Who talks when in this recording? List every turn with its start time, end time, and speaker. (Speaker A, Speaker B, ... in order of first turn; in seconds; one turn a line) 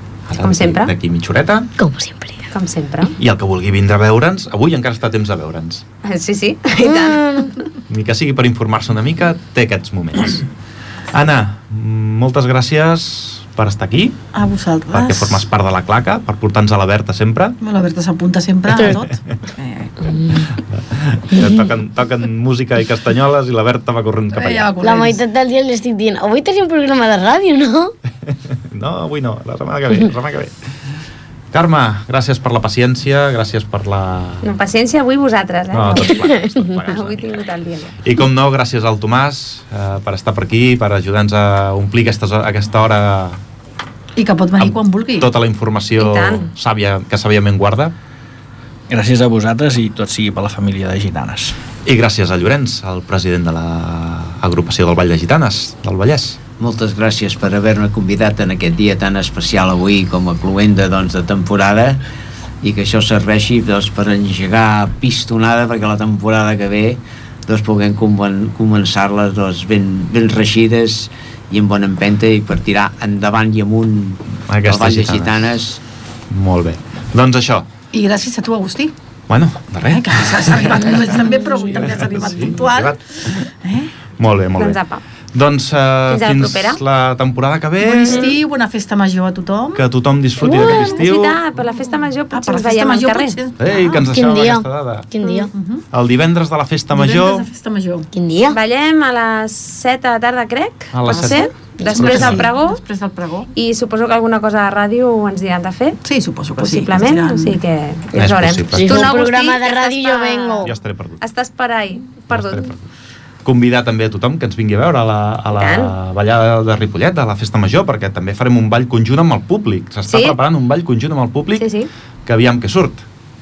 Speaker A: 0.3-1.7
Speaker B: 0.4-0.9
Speaker C: 1.8-2.5
Speaker B: 2.5-3.1
Speaker A: 3.2-5.8
Speaker B: 6.0-7.5
Speaker C: 6.8-7.5
Speaker A: 7.9-10.5
Speaker A: 11.1-14.2
Speaker D: 14.3-15.4
Speaker A: 14.9-17.6
Speaker D: 17.6-20.2
Speaker C: 18.7-19.1
Speaker C: 20.1-20.5
Speaker A: 20.7-24.8
Speaker D: 24.4-25.2
Speaker C: 24.8-27.9
Speaker A: 28.3-30.6
Speaker A: 31.5-34.5
Speaker B: 34.4-38.0
Speaker A: 35.7-37.4
Speaker C: 36.1-36.5
Speaker A: 38.0-43.4
Speaker D: 44.2-45.3
Speaker A: 44.6-47.9
Speaker B: 46.0-46.5
Speaker E: 48.9-51.5
Speaker A: 51.9-56.4
Speaker F: 56.6-62.0
Speaker F: 62.6-75.8
Speaker A: 74.5-75.6
Speaker A: 76.3-77.7
Speaker D: 77.9-78.9
Speaker A: 79.3-81.1
Speaker D: 79.9-83.9
Speaker A: 81.7-83.5
Speaker A: 84.2-84.8
Speaker B: 84.6-85.0
Speaker A: 85.3-88.3
Speaker B: 86.1-86.8
Speaker D: 87.8-89.8
Speaker B: 88.1-88.3
Speaker A: 89.8-91.4
Speaker B: 90.4-93.4
Speaker C: 90.4-90.9
Speaker D: 92.3-94.1
Speaker A: 93.6-95.1
Speaker C: 94.1-95.5
Speaker B: 95.2-95.5
Speaker D: 95.5-95.8
Speaker A: 95.9-97.5
Speaker D: 96.9-98.1
Speaker C: 98.1-98.6
Speaker B: 98.5-102.8
Speaker A: 100.9-102.5
Speaker D: 101.1-103.5
Speaker B: 103.5-106.0
Speaker D: 106.0-107.6
Speaker B: 106.6-112.8
Speaker A: 108.1-109.2
Speaker C: 108.7-110.7
Speaker A: 110.6-111.2
Speaker A: 112.3-112.9
Speaker A: 113.4-121.7
Speaker B: 115.6-116.0
Speaker B: 120.1-120.4
Speaker B: 121.6-121.9
Speaker A: 122.2-123.1